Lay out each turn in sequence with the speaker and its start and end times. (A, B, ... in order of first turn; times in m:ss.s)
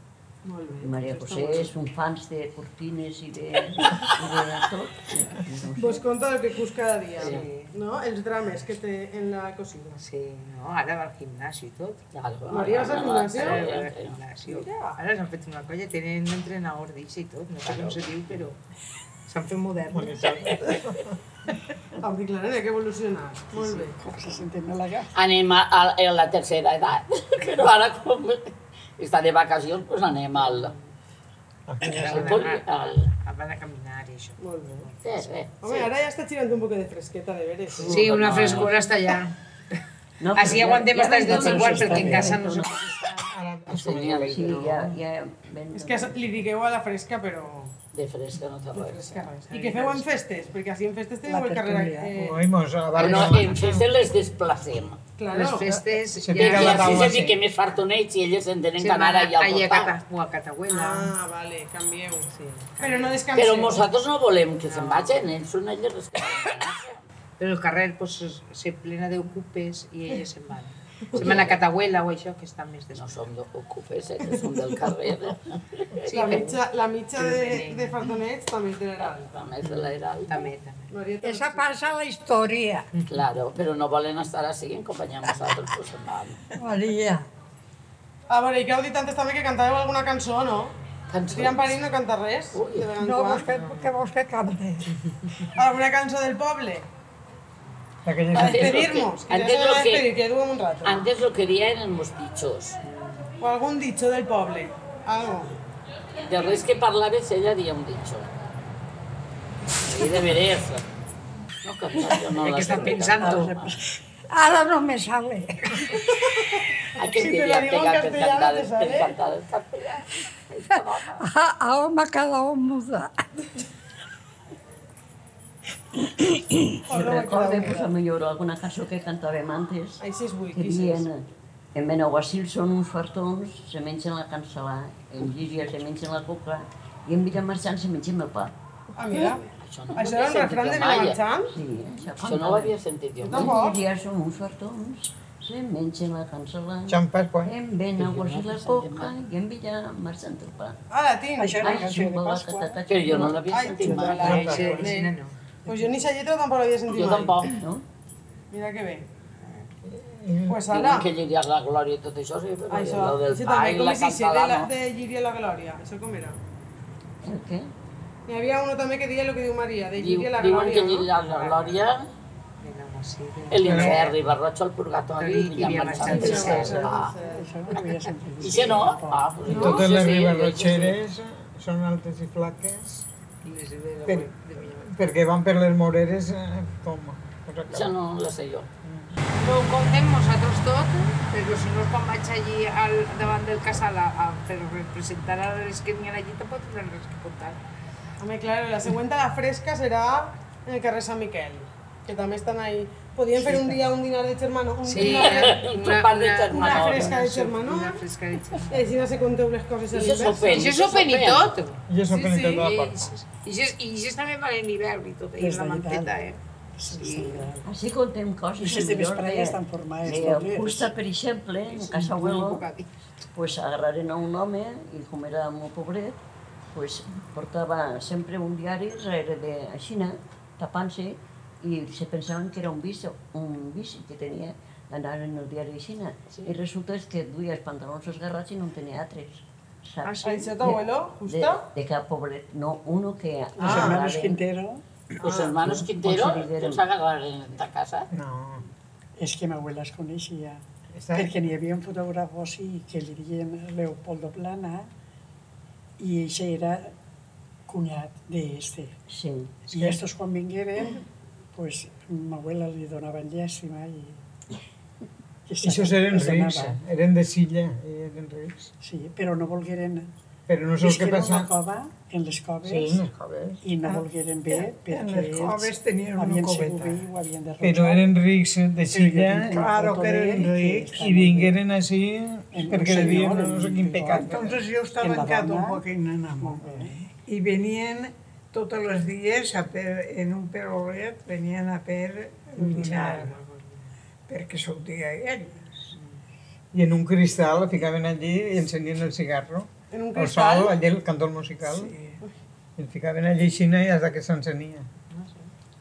0:00.4-0:01.7 A
0:00.8-0:06.0 B
0:05.8-0:10.0 A
0:07.2-0:07.4 C
0:07.2-0:07.7 D
0:10.0-0:12.0 D
0:12.1-0:14.2 C
0:12.5-0:13.8 A
0:12.6-0:18.6 D
0:14.4-0:15.0 A
0:17.6-0:18.0 C
0:19.3-0:20.8 D
0:19.9-0:21.1 E
0:22.0-0:24.0 A
0:23.8-0:25.1 F
0:25.1-0:30.7 C
0:30.4-0:30.8 D
0:31.7-0:32.3 E
0:31.8-0:33.1 C
0:31.8-0:35.3 D
0:34.4-0:34.9 A
0:35.0-0:35.9 C
0:35.6-0:38.4 A
0:37.7-0:38.8 C
0:37.8-0:39.3 D
0:40.2-0:42.8 B
0:40.3-0:43.2 D
0:41.2-0:42.4 F
0:43.1-0:44.9 E
0:43.7-0:44.8 C
0:44.2-0:46.5 B
0:45.7-0:47.7 A
0:47.9-0:49.3 C
0:48.7-0:52.4 A
0:49.5-0:50.0 D
0:51.2-0:52.2 F
0:52.2-0:53.9 E
0:53.0-0:55.0 C
0:55.2-0:55.7 A
0:55.3-0:57.2 D
0:55.6-0:57.4 E
0:56.4-0:59.9 C
0:58.8-1:01.1 D
1:00.7-1:03.8 A
1:02.3-1:03.2 D
1:03.3-1:07.0 C
1:04.6-1:05.2 D
1:07.4-1:13.2 D
1:11.1-1:11.6 C
1:12.9-1:16.4 C
1:16.1-1:16.6 D
1:16.1-1:19.4 A
1:17.1-1:18.0 D
1:19.0-1:20.5 C
1:19.6-1:20.9 D
1:20.9-1:21.7 A
1:21.2-1:22.9 G
1:23.1-1:26.4 C
1:26.6-1:27.3 G
1:28.3-1:30.7 A
1:31.1-1:31.8 C
1:31.3-1:33.5 A
1:32.5-1:32.9 C
1:33.0-1:34.9 G
1:33.4-1:33.9 D
1:35.2-1:35.5 D
1:35.6-1:36.8 A
1:38.0-1:39.0 E
1:38.3-1:41.1 A
1:38.3-1:40.1 C
1:40.8-1:42.8 C
1:42.8-1:43.3 D
1:43.4-1:45.5 A
1:46.2-1:48.3 C
1:49.8-1:50.8 C
1:51.6-1:53.7 C
1:52.3-1:53.6 D
1:52.7-1:53.8 F
1:54.3-1:56.0 G
1:57.0-2:01.2 C
1:57.0-1:59.1 A
2:00.7-2:03.1 G
2:06.6-2:10.0 B
2:06.9-2:07.9 A
2:10.0-2:11.0 A
2:10.5-2:18.5 B
2:19.0-2:19.4 A
2:19.6-2:21.2 C
2:19.9-2:21.5 A
2:21.5-2:22.8 B
2:22.2-2:23.6 C
2:23.2-2:23.8 A
2:23.3-2:30.8 B
2:26.9-2:27.5 E
2:28.0-2:29.1 C
2:30.9-2:31.9 A
2:31.4-2:32.8 F
2:31.6-2:33.7 B
2:32.9-2:34.5 C
2:33.3-2:35.1 A
2:33.7-2:34.2 F
2:34.2-2:35.4 D
2:34.2-2:34.9 E
2:35.7-2:36.0 F
2:35.7-2:37.5 A
2:36.9-2:37.5 C
2:37.5-2:37.8 B
2:38.5-2:39.1 A
2:39.9-2:40.6 E
2:40.5-2:41.1 A
2:40.7-2:44.7 C
2:42.7-2:46.4 A
2:47.2-2:47.7 B
2:48.3-2:51.1 A
2:50.0-2:52.1 C
2:51.2-2:51.8 D
2:52.6-2:54.2 D
2:53.5-2:57.1 C
2:53.6-2:54.1 E
2:55.2-2:57.0 D
2:55.7-2:57.8 A
2:56.8-2:59.6 F
2:58.4-3:01.0 C
2:59.5-3:03.0 E
2:59.5-2:59.8 A
3:03.4-3:04.9 D
3:04.0-3:08.0 E
3:07.7-3:08.7 C
3:08.8-3:09.1 E
3:09.3-3:17.6 D
3:18.2-3:25.6 A
3:24.8-3:28.9 D
3:24.9-3:27.4 C
3:26.5-3:28.0 A
3:28.7-3:30.7 A
3:29.9-3:31.6 C
3:30.5-3:31.8 D
3:31.9-3:33.1 E
3:32.1-3:32.7 A
3:32.6-3:37.5 D
3:35.4-3:36.1 F
3:36.8-3:37.7 F
3:37.6-3:42.6 B
3:38.6-3:40.9 F
3:41.7-3:42.9 D
3:43.3-3:46.2 B
3:46.7-4:04.4 B
4:00.0-4:00.5 D
4:00.2-4:01.6 A
4:03.6-4:04.8 F
4:05.2-4:08.1 C
4:05.2-4:05.5 A
4:05.4-4:06.8 B
4:08.1-4:08.6 E
4:09.2-4:10.6 F
4:10.9-4:11.4 E
4:11.1-4:14.9 F
4:16.0-4:16.9 F
4:17.7-4:18.9 F
4:19.1-4:19.5 B
4:19.7-4:24.2 F
4:19.7-4:20.0 E
4:25.5-4:26.8 F
4:25.6-4:28.7 E
4:28.8-4:30.1 F
4:30.5-4:31.5 E
4:30.8-4:33.0 F
4:32.6-4:33.6 E
4:33.6-4:38.1 F
4:33.9-4:37.0 H
4:37.6-4:39.7 E
4:38.9-4:41.6 F
4:39.5-4:41.0 H
4:40.9-4:44.6 E
4:42.5-4:44.4 F
4:44.2-4:53.4 H
4:45.0-4:45.8 F
4:46.4-4:47.0 F
4:52.6-4:53.1 F
4:52.8-4:53.1 E
4:53.4-4:53.8 D
4:54.3-4:55.9 H
4:55.9-4:56.2 D
4:56.7-5:01.9 E
4:59.9-5:00.8 A
5:02.8-5:04.9 E
5:05.1-5:05.5 D